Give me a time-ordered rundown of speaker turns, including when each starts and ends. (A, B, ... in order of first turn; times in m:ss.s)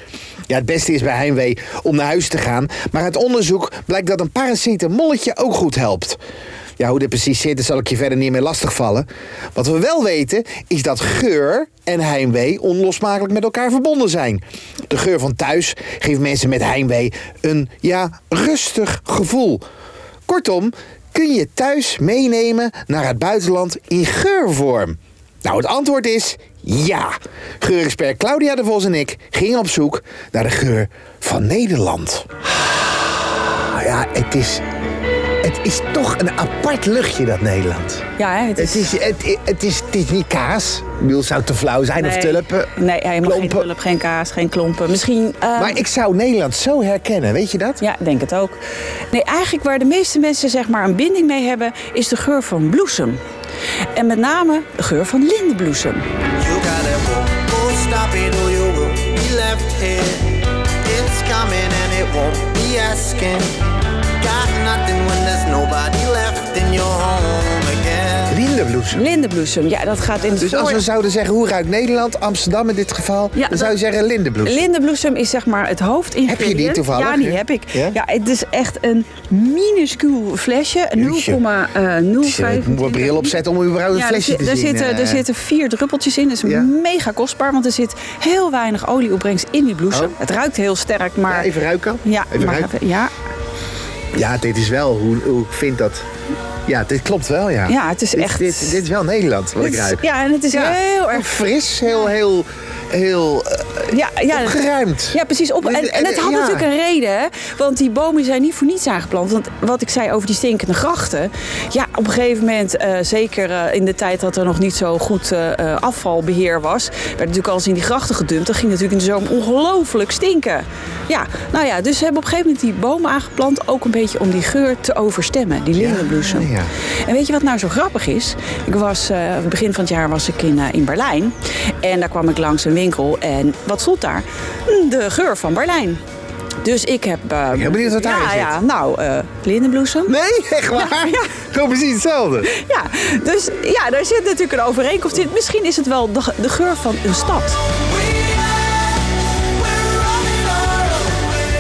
0:00.5-0:06.2 A
0:06.8-0:19.6 A
0:20.3-0:32.3 A
0:33.4-0:34.6 A
0:35.4-0:38.0 A
0:38.2-0:39.0 B
0:38.6-0:43.7 A
0:42.0-0:45.8 B
0:45.6-0:47.8 A
0:47.8-0:48.6 B
0:49.1-0:53.2 B
0:54.0-0:56.0 B
0:56.4-1:03.6 C
1:04.2-1:08.3 C
1:08.3-1:09.0 A
1:08.9-1:10.8 B
1:10.4-1:14.7 A
1:13.4-1:13.8 B
1:14.4-1:23.4 B
1:16.3-1:18.0 A
1:21.0-1:21.4 A
1:22.2-1:25.2 A
1:23.9-1:31.5 B
1:31.3-1:32.7 A
1:32.0-1:33.1 B
1:34.1-1:36.0 A
1:36.7-1:46.7 A
1:37.7-1:38.8 B
1:39.6-1:41.4 B
1:43.9-2:16.0 B
2:05.7-2:06.7 A
2:16.6-2:20.2 B
2:17.5-2:18.5 A
2:20.1-2:22.5 A
2:20.7-2:21.3 B
2:22.5-2:27.6 B
2:30.4-2:30.8 C